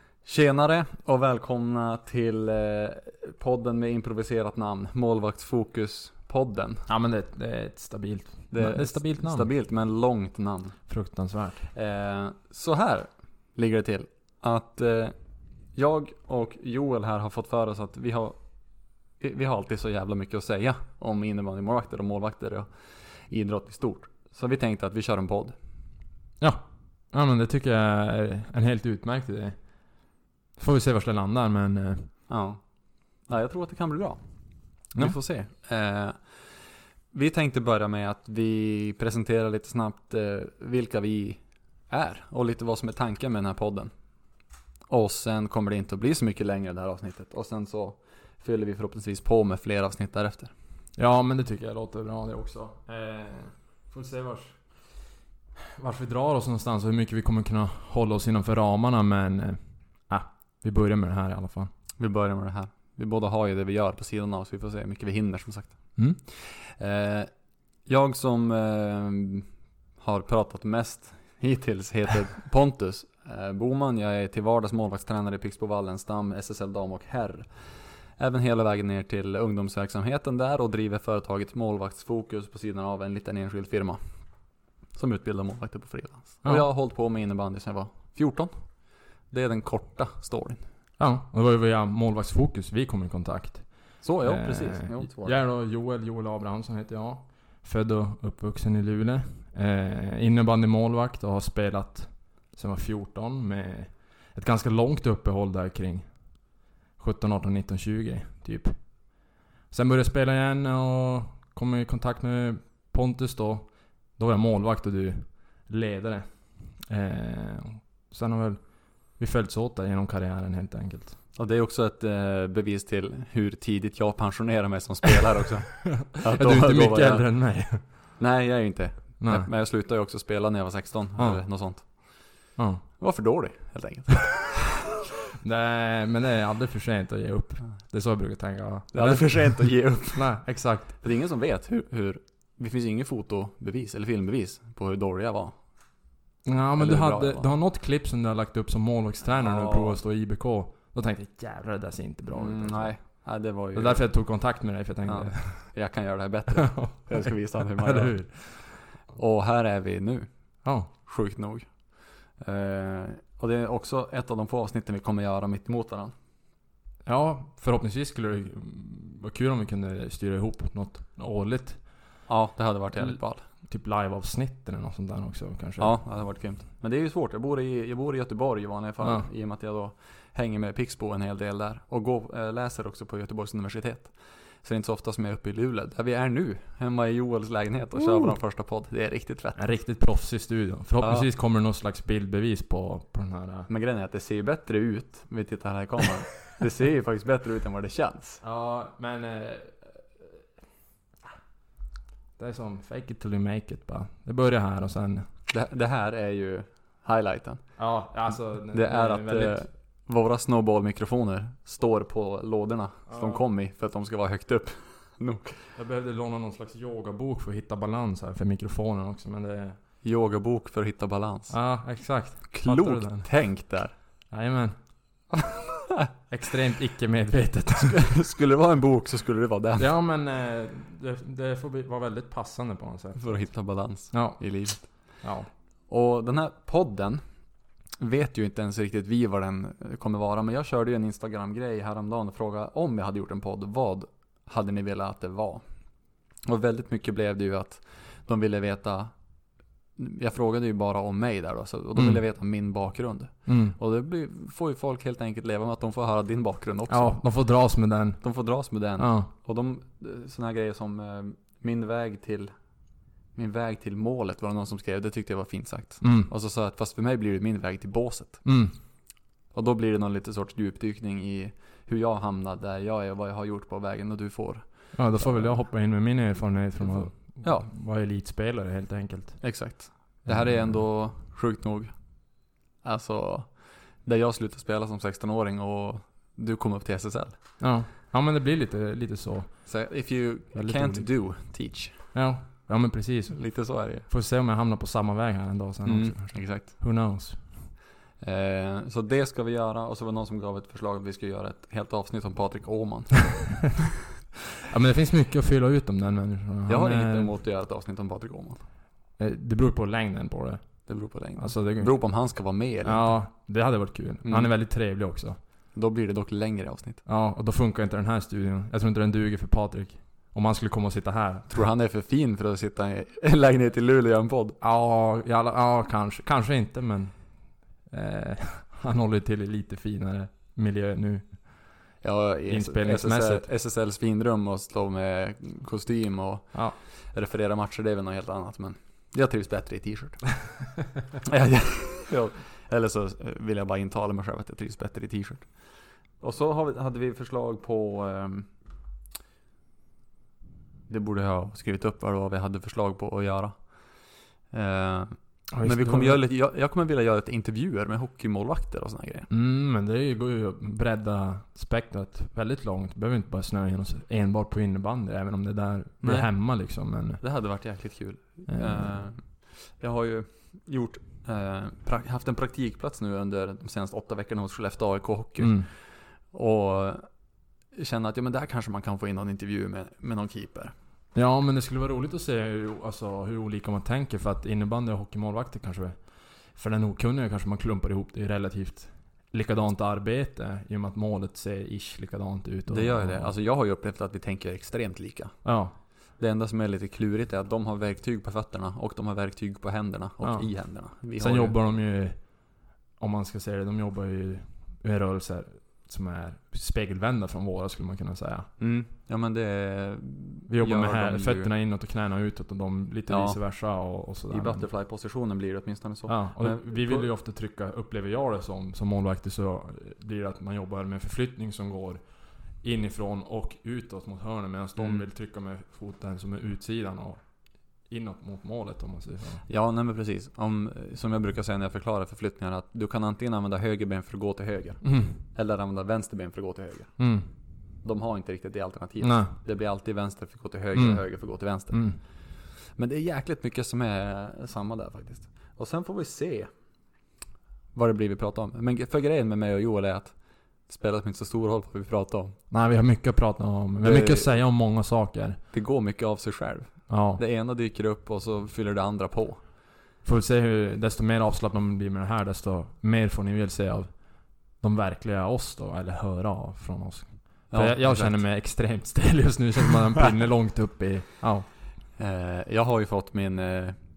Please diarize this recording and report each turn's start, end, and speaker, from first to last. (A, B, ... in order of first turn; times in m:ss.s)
0:00.2-0:06.8 A
0:06.9-0:09.5 B
0:08.5-0:10.8 A
0:10.9-0:11.6 B
0:11.6-0:15.1 A
0:15.7-0:18.4 A
0:19.2-0:22.7 A
0:23.3-0:25.6 A
0:26.4-0:29.6 B
0:30.6-0:32.1 B
0:32.3-0:32.6 A
0:33.3-0:34.2 A
0:34.9-0:36.3 A
0:37.1-0:43.9 A
0:44.9-0:50.5 A
0:51.0-0:54.6 B
0:55.8-1:01.7 B
1:02.0-1:07.3 A
1:07.8-1:09.5 A
1:10.0-1:17.6 A
1:18.2-1:24.0 A
1:24.9-1:28.8 A
1:29.3-1:30.6 A
1:31.0-1:46.5 B
1:34.0-1:35.4 A
1:47.0-2:01.2 B
2:01.4-2:07.6 A
2:06.1-2:07.8 B
2:08.2-2:12.3 A
2:09.2-2:09.5 B
2:11.2-2:11.4 B
2:12.6-2:12.8 B
2:13.0-2:14.5 A
2:15.4-2:21.0 B
2:18.9-2:25.6 A
2:26.4-2:35.8 B
2:26.8-2:27.5 A
2:29.4-2:30.0 A
2:32.3-2:34.2 A
2:35.0-2:40.3 A
2:36.7-2:38.8 B
2:40.6-2:40.9 B
2:40.9-2:46.1 A
2:47.0-2:52.0 B
2:52.3-2:53.4 A
2:52.9-2:56.0 B
2:55.8-3:09.7 A
3:09.6-3:13.7 B
3:11.0-3:11.3 A
3:13.7-3:18.4 A
3:18.4-3:20.2 B
3:22.4-3:25.2 B
3:25.5-3:35.6 A
3:27.8-3:29.7 B
3:33.1-3:33.4 B
3:35.7-3:39.8 B
3:40.0-3:41.7 A
3:41.5-3:43.3 B
3:42.5-3:43.9 A
3:44.3-3:44.8 B
3:46.3-3:48.1 B
3:47.9-3:49.9 A
3:49.8-3:53.5 B
3:53.2-3:55.2 A
3:54.1-3:55.5 B
3:55.9-3:57.2 A
3:58.0-4:05.6 A
4:06.4-4:09.1 A
4:10.0-4:17.3 A
4:11.9-4:12.2 B
4:13.4-4:13.8 B
4:16.9-4:18.2 B
4:18.2-4:22.5 A
4:19.0-4:19.3 B
4:23.3-4:28.6 A
4:26.0-4:26.3 B
4:28.4-4:28.8 B
4:29.5-4:35.6 A
4:34.9-4:40.8 B
4:36.9-4:37.7 A
4:39.4-4:41.9 A
4:42.8-4:47.4 A
4:47.6-4:49.7 B
4:49.6-4:52.1 A
4:50.5-4:51.1 B
4:52.1-4:57.7 B
4:53.3-4:54.1 A
4:55.8-4:56.8 A
4:58.2-5:03.8 A
5:04.6-5:07.3 B
5:06.7-5:08.6 A
5:09.2-5:12.3 B
5:10.9-5:13.2 A
5:12.8-5:15.4 B
5:14.2-5:14.5 A
5:15.7-5:17.0 A
5:17.0-5:21.5 B
5:21.5-5:24.6 A
5:24.6-5:31.8 B
5:32.0-5:40.4 A
5:32.5-5:33.4 B
5:41.3-5:45.5 A
5:46.2-5:48.5 A
5:50.9-5:59.3 A
5:55.5-5:56.2 B
5:59.3-6:07.2 B
6:06.0-6:06.5 A
6:07.2-6:17.0 A
6:08.5-6:08.9 B
6:15.4-6:15.7 B
6:17.7-6:20.7 A
6:21.1-6:33.3 B
6:32.7-6:35.4 A
6:35.4-6:35.7 B
6:36.2-6:41.6 A
6:40.2-6:48.5 B
6:48.6-6:51.5 A
6:50.5-6:54.6 B
6:53.1-6:53.7 A
6:54.3-6:57.1 A
6:56.1-7:07.2 B
7:04.8-7:05.1 A
7:07.8-7:09.4 B
7:09.5-7:17.0 A
7:14.8-7:15.2 B
7:17.0-7:17.3 B
7:17.8-7:26.5 A
7:19.0-7:19.3 B
7:20.7-7:21.1 B
7:21.7-7:22.0 B
7:27.7-7:32.4 A
7:32.5-7:35.4 B
7:33.8-7:34.4 A
7:35.5-7:39.4 A
7:36.9-7:37.2 B
7:40.0-7:51.5 B
7:47.5-7:48.3 A
7:52.0-7:53.8 A